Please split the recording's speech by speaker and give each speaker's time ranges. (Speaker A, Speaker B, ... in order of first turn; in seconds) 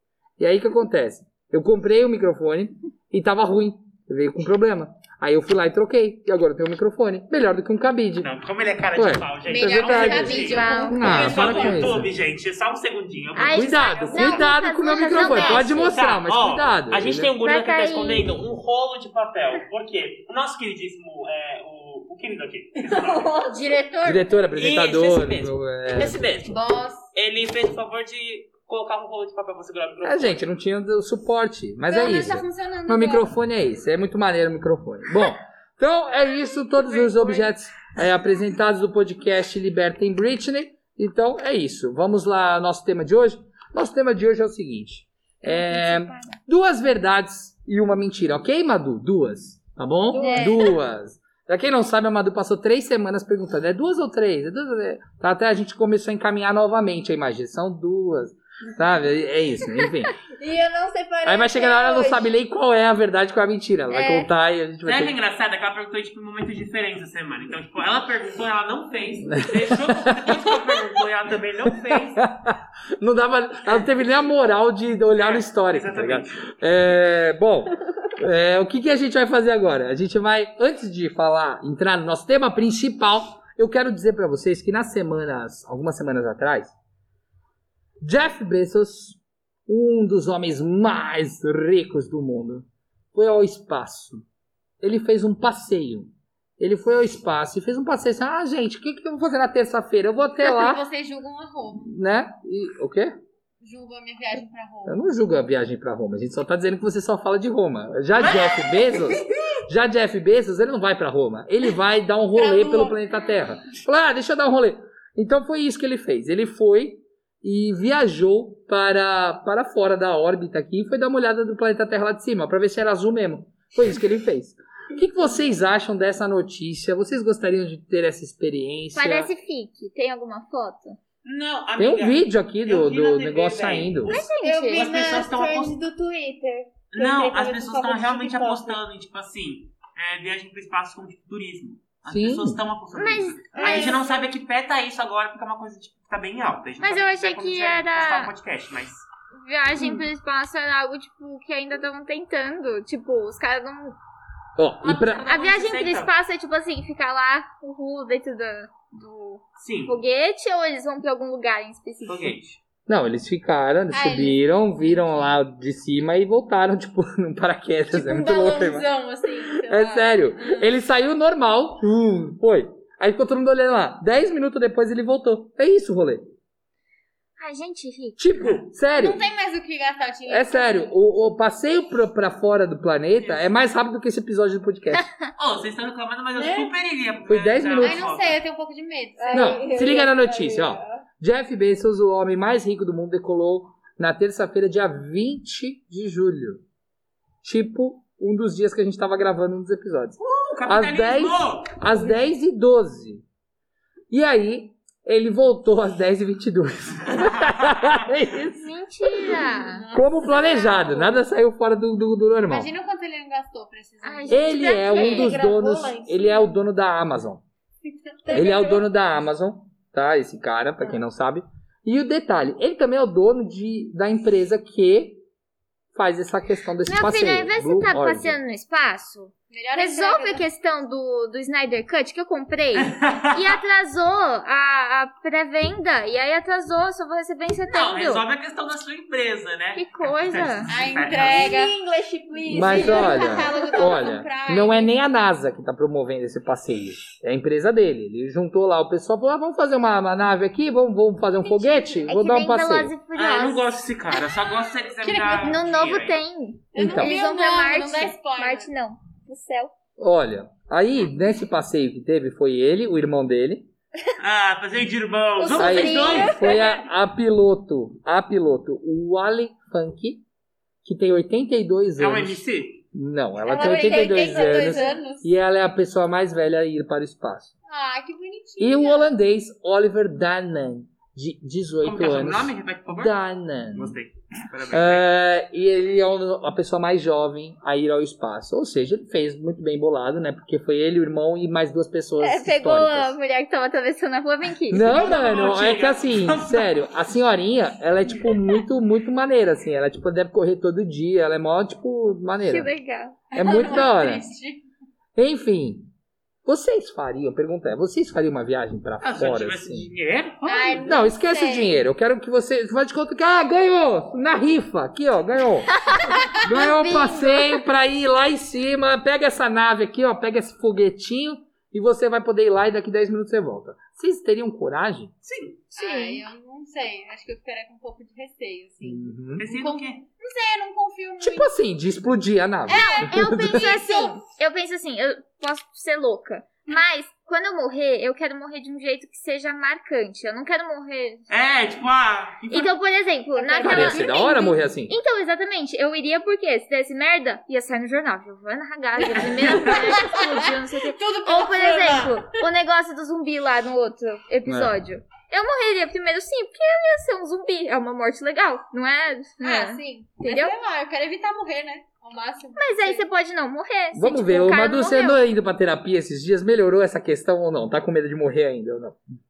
Speaker A: 0.4-8.3, 8.9-12.1, 13.5-17.3, 24.0-26.2, 30.0-60.1, 61.2-65.1, 69.4-70.2, 71.9-86.7, 88.0-94.2, 94.8-100.8, 101.8-103.2, 104.8-129.3, 131.8-134.1, 142.1-142.6, 154.6-155.2, 162.9-168.9, 169.6-176.2, 178.2-179.2, 180.3-185.1, 187.3-188.0, 189.3-196.6, 197.4-203.2, 204.1-208.7, 209.9-212.7, 214.3-217.4, 218.3-225.2, 225.9-228.4, 242.5-252.9, 256.8-257.1, 260.0-263.7, 265.6-270.2, 270.8-272.4, 272.9-277.5, 278.6-284.0, 284.7-293.1, 294.7-302.7, 303.3-304.2, 305.1-305.9, 306.4-309.9, 310.8-325.1, 328.8-329.5, 331.2-333.6, 343.6-345.0, 354.4-354.7, 363.9-369.0
Speaker B: 8.2-14.2, 15.3-23.3, 24.5-26.6, 27.1-30.4, 36.9-37.5, 64.8-72.3, 75.2-76.4, 108.3-109.0, 131.2-135.8, 136.9-149.0, 154.8-156.1, 159.6-160.0, 162.1-162.6, 183.1-183.7, 185.4-188.4, 200.2-202.1, 232.8-233.6, 237.7-241.5, 253.1-256.2, 264.2-266.7, 272.0-272.8, 281.8-283.2, 283.7-285.1, 294.8-296.9, 309.0-310.9, 325.2-325.6, 329.4-330.0, 341.3-342.7, 349.4-349.8
Speaker C: 9.5-12.0, 23.0-24.3, 26.5-27.1, 31.9-33.3, 100.4-101.9, 103.6-105.0, 112.3-113.0, 163.9-165.3, 167.9-170.7, 178.9-180.8, 187.8-189.7, 209.3-211.2, 212.5-214.6, 229.5-230.4, 240.7-241.7, 242.5-244.9, 251.4-252.0, 255.0-255.6, 256.8-258.7, 273.5-275.3, 277.7-279.1, 303.3-304.6, 310.4-311.8, 325.8-331.5, 332.7-334.2, 343.4-344.1, 349.2-352.4, 359.4-363.1
Speaker D: 10.3-11.3, 13.3-15.9, 17.4-18.3, 45.4-46.4, 50.1-50.7, 128.9-131.0, 134.1-134.9, 142.9-144.0, 146.8-148.3, 149.3-153.9, 155.3-162.3, 177.4-178.2, 185.0-185.3, 208.5-209.8, 214.0-215.3, 226.8-238.2, 239.7-240.7, 252.1-253.6, 255.4-259.7, 265.5-266.4, 292.2-295.0, 302.4-303.2, 315.8-317.6, 325.7-326.2, 332.7-341.3, 342.5-360.6, 362.6-365.2
Speaker E: 23.1-23.5, 50.2-50.7, 60.4-62.3, 63.9-64.3, 134.4-138.8, 143.5-144.3, 189.2-191.0, 214.9-216.6, 218.2-218.8, 241.2-244.0, 265.4-266.6, 273.4-275.0